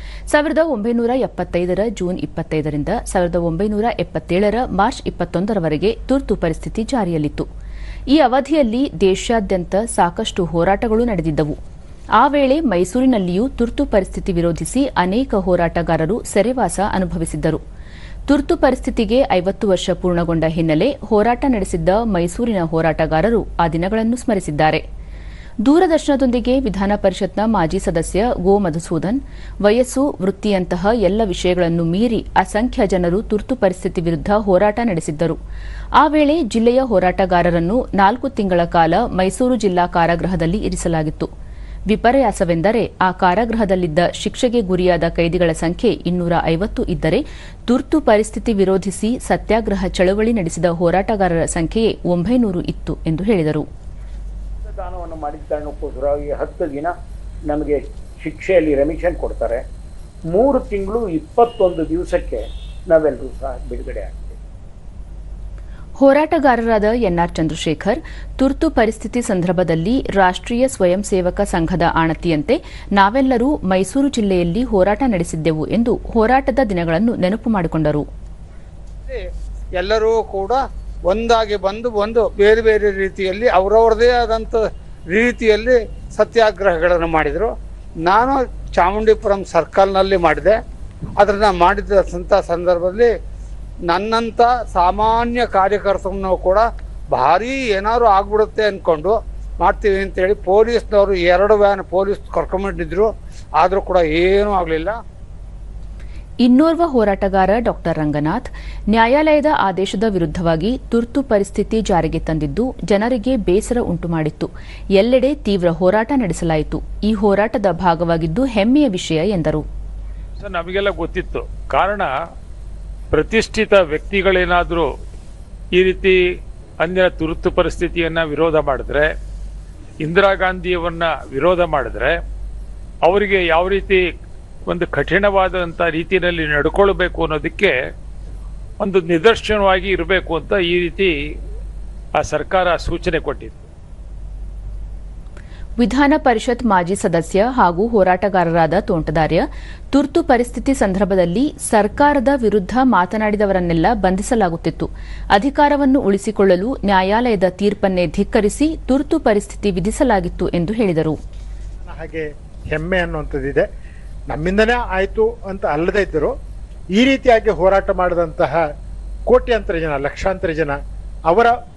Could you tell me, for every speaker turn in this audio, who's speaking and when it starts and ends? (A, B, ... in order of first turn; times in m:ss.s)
0:00.3-0:07.5 A
0:08.1-0:11.6 A
0:12.2-0:17.6 A
0:18.3-0:24.8 A
0:25.6-0:35.4 A
0:36.0-0:41.3 A
0:41.9-0:53.6 A
0:54.6-0:56.9 B
0:57.5-0:59.6 B
1:00.3-1:04.4 B
1:06.0-1:18.0 A
1:19.8-1:27.5 C
1:28.0-1:30.6 C
1:31.2-1:33.1 C
1:33.9-1:45.0 C
1:46.4-1:59.6 A
2:00.4-2:02.1 D
2:03.1-2:04.9 D
2:05.8-2:06.2 D
2:06.8-2:09.1 D
2:10.0-2:12.1 D
2:13.0-2:14.0 D
2:14.7-2:17.7 D
2:18.8-2:21.1 D
2:22.2-2:23.6 D
2:25.8-2:41.2 A
2:41.8-2:43.7 E
2:44.3-2:46.3 E
2:47.0-2:48.6 E
2:49.3-2:51.5 E